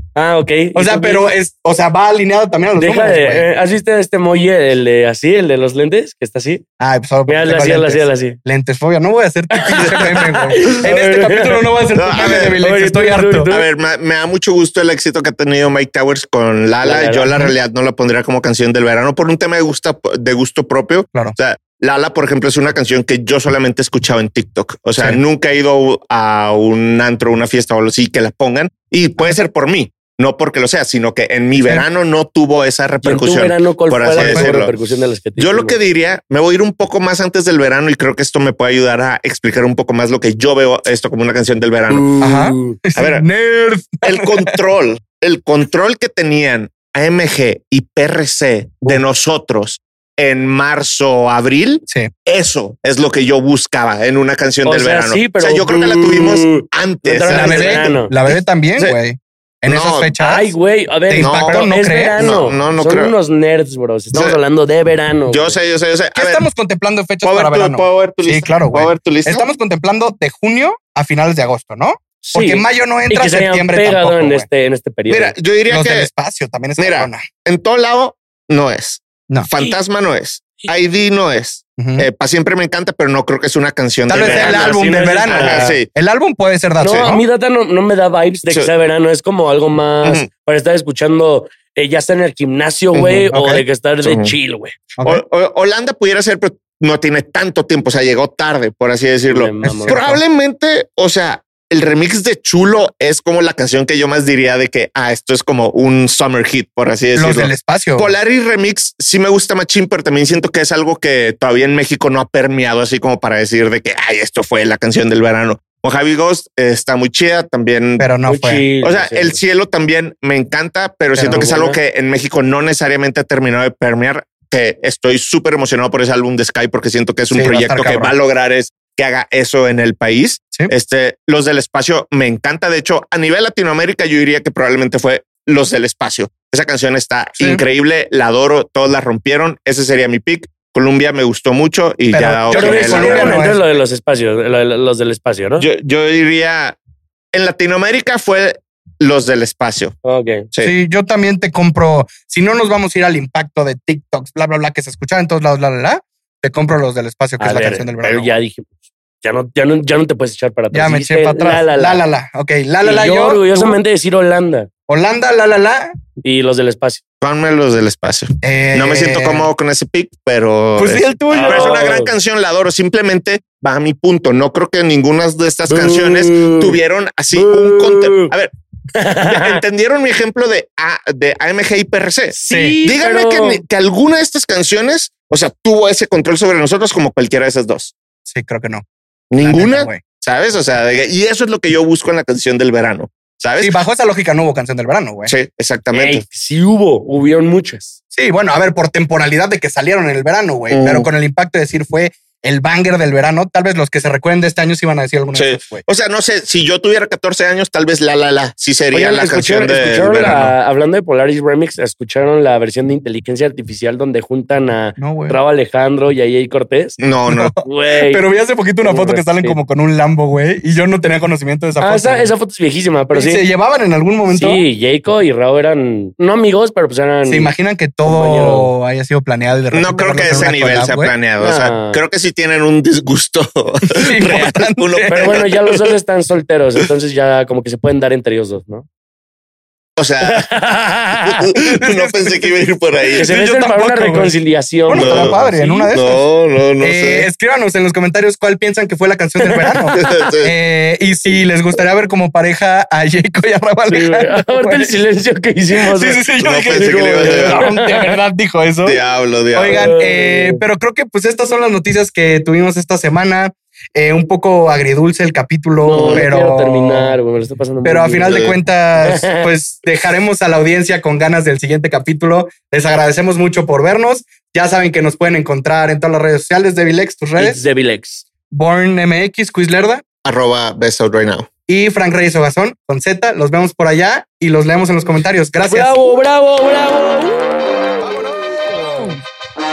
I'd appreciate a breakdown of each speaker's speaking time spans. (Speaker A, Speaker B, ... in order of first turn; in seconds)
Speaker A: 0.2-1.3, 2.8-6.6, 7.3-8.4, 9.5-13.7, 16.8-17.3, 33.0-35.8, 41.9-42.8, 54.6-58.1, 60.2-65.6, 72.2-75.3, 84.2-85.8, 86.8-94.8, 99.3-100.0, 118.2-119.4, 121.3-121.8, 142.5-145.7, 150.0-150.5, 157.4-162.0, 162.8-164.7, 166.2-167.0, 171.3-172.1, 175.7-176.8, 177.3-178.3, 178.9-179.6, 182.3-183.6, 195.9-198.0, 208.9-217.0, 217.6-218.2, 218.8-219.6, 221.8-223.4, 224.3-227.5, 228.1-228.7, 231.4-232.0, 235.1-238.9, 240.2-241.6, 243.2-245.9, 249.4-250.0, 253.9-258.2, 259.7-260.6, 265.8-268.4, 269.0-269.5, 277.4-278.2, 285.6-287.7, 288.5-289.2
Speaker B: 0.8-3.5, 6.8-13.5, 31.6-31.9, 34.2-34.6, 42.2-44.6, 57.3-60.5, 61.1-62.2, 66.2-74.5, 75.7-77.3, 81.8-82.1, 84.1-87.2, 93.3-93.6, 95.0-95.2, 99.6-100.2, 107.2-108.1, 118.0-118.7, 121.2-121.5, 127.3-128.2, 137.4-137.6, 142.1-143.6, 150.6-158.3, 160.7-163.8, 164.9-165.9, 168.4-169.5, 170.8-171.8, 182.4-182.8, 188.3-188.8, 189.4-190.0, 193.6-195.3, 198.1-205.8, 215.0-215.4, 217.3-222.3, 223.1-224.7, 227.3-231.1, 233.9-235.4, 241.6-242.6, 243.1-246.2, 246.8-255.0, 255.8-259.0, 259.5-267.1, 267.8-277.7, 278.5-280.0, 281.7-286.2, 288.0-289.2
Speaker C: 9.8-10.7, 12.0-12.6, 13.5-34.7, 35.4-42.1, 43.0-43.3, 44.0-57.9, 59.7-60.1, 61.2-63.1, 65.3-66.5, 67.2-69.5, 75.1-76.1, 76.8-85.9, 93.0-93.3, 94.0-94.3, 95.0-118.1, 118.8-143.5, 145.6-146.8, 147.3-150.0, 167.2-178.5, 179.2-187.9, 189.3-193.8, 195.3-196.2, 200.7-201.1, 205.3-210.5, 217.0-217.6, 229.7-235.9, 240.0-240.5, 241.3-243.3, 244.9-247.3, 249.9-250.5, 256.4-257.6, 258.9-259.9, 265.9-266.3, 268.3-268.6, 280.2-281.5